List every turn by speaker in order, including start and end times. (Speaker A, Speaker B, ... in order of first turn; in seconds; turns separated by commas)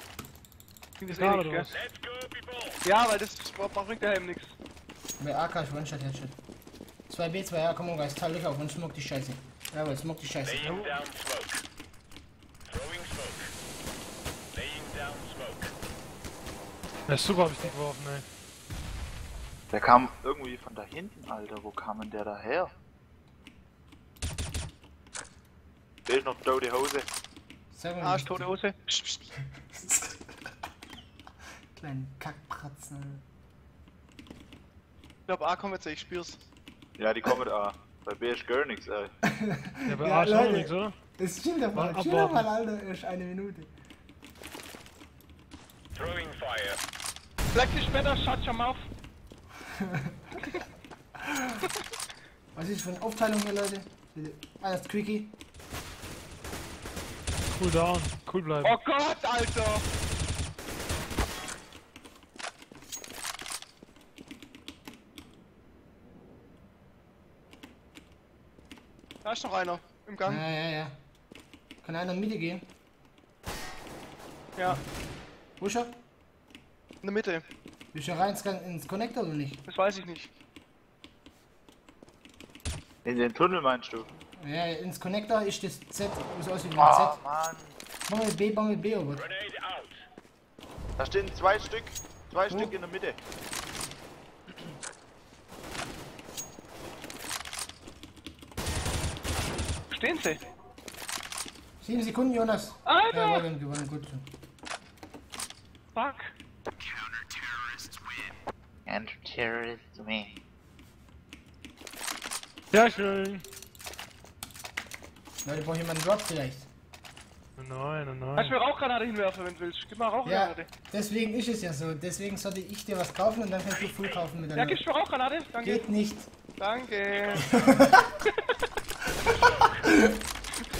Speaker A: 1.0-1.7, Speaker B: 1.1-1.7, Speaker C: 1.7-2.8, Speaker A: 2.9-4.5, Speaker D: 5.2-6.3, Speaker D: 7.1-10.7, Speaker C: 10.4-11.6, Speaker B: 10.7-11.0, Speaker C: 12.7-13.5, Speaker C: 14.5-15.7, Speaker B: 17.1-18.3, Speaker E: 19.7-22.7, Speaker E: 26.1-27.1, Speaker D: 27.7-28.5, Speaker A: 28.0-29.3, Speaker D: 29.7-30.2, Speaker D: 31.8-33.2, Speaker A: 35.3-36.4, Speaker E: 37.0-39.1, Speaker D: 39.3-43.7, Speaker B: 39.9-41.0, Speaker B: 41.7-42.5, Speaker C: 46.0-46.8, Speaker A: 47.5-48.8, Speaker D: 49.8-50.5, Speaker D: 51.2-51.6, Speaker D: 52.5-55.4, Speaker B: 57.5-58.8, Speaker A: 58.6-59.8, Speaker A: 69.2-70.4, Speaker D: 70.2-71.0, Speaker D: 71.8-72.7, Speaker D: 75.6-76.0, Speaker A: 77.0-77.4, Speaker D: 77.9-79.7, Speaker A: 79.7-80.3, Speaker E: 83.0-84.1, Speaker D: 84.4-87.2, Speaker E: 86.8-87.8, Speaker D: 88.1-89.3, Speaker C: 89.1-90.0, Speaker E: 91.0-93.2, Speaker A: 99.9-100.4, Speaker D: 101.8-104.3, Speaker A: 102.9-103.4, Speaker A: 106.0-106.3, Speaker E: 108.9-110.4, Speaker B: 112.7-113.4, Speaker D: 115.4-116.7, Speaker B: 117.6-118.6, Speaker A: 118.4-120.7, Speaker D: 120.2-124.8, Speaker C: 123.7-124.2, Speaker A: 124.6-125.9, Speaker D: 125.6-126.3, Speaker A: 126.6-127.5, Speaker C: 127.1-127.5, Speaker D: 127.5-128.1, Speaker C: 129.2-129.9